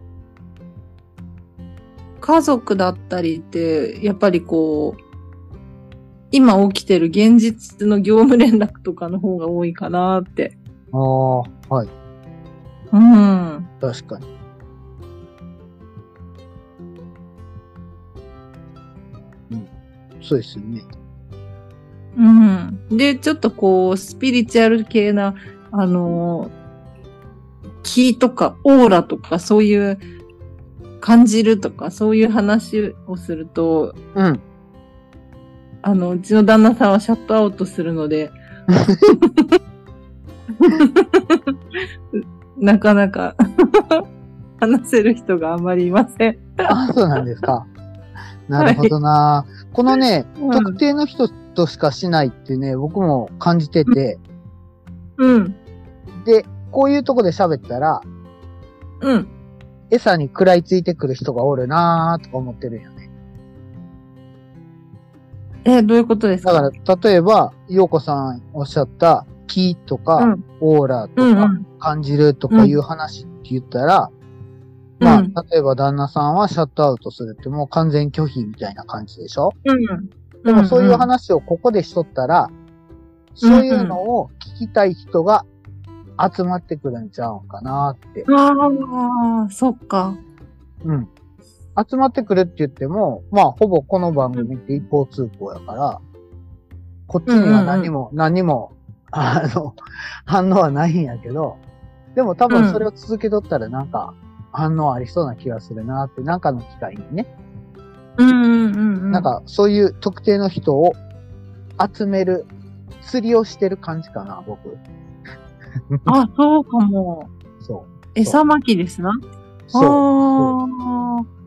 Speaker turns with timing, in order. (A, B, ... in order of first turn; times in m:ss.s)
0:02.2-0:05.0 A
0:06.3-0:10.6 A
0:10.9-0:11.9 B
0:12.9-0:13.7 A
0:13.8-0:14.3 B
0:20.2-0:20.9 B
0:22.2-0:26.5 A
0:27.8-0:30.0 A
0:31.0-0:34.0 A
0:34.2-0:34.4 B
0:35.8-0:38.4 A
0:38.7-0:39.1 B
0:39.1-0:39.6 A
0:40.6-0:41.5 A
0:42.2-0:44.0 A
0:44.6-0:46.6 A
0:46.6-0:47.7 B
0:48.5-0:54.2 B
0:48.6-0:48.9 A
0:50.4-0:50.8 A
0:55.2-0:55.6 A
0:56.2-0:58.1 B
0:59.0-0:59.3 A
0:59.9-1:03.1 B
1:05.6-1:06.7 A
1:06.4-1:14.1 B
1:10.2-1:10.4 A
1:11.2-1:11.6 A
1:12.5-1:12.8 A
1:15.0-1:15.3 A
1:15.0-1:19.6 B
1:19.7-1:21.1 A
1:20.5-1:22.5 B
1:23.4-1:25.5 B
1:23.4-1:24.0 A
1:26.2-1:28.3 B
1:28.3-1:30.2 A
1:30.8-1:31.1 B
1:31.8-1:36.0 B
1:37.1-1:41.6 B
1:37.3-1:37.9 A
1:42.2-1:47.3 B
1:42.5-1:42.9 A
1:48.2-1:49.3 A
1:49.1-1:51.0 B
1:51.8-1:52.5 B
1:53.0-1:54.8 B
1:55.9-1:56.2 B
1:56.1-1:57.3 A
1:57.6-1:58.4 B
1:58.2-1:59.2 A
1:59.7-2:00.6 B
1:59.7-2:01.2 A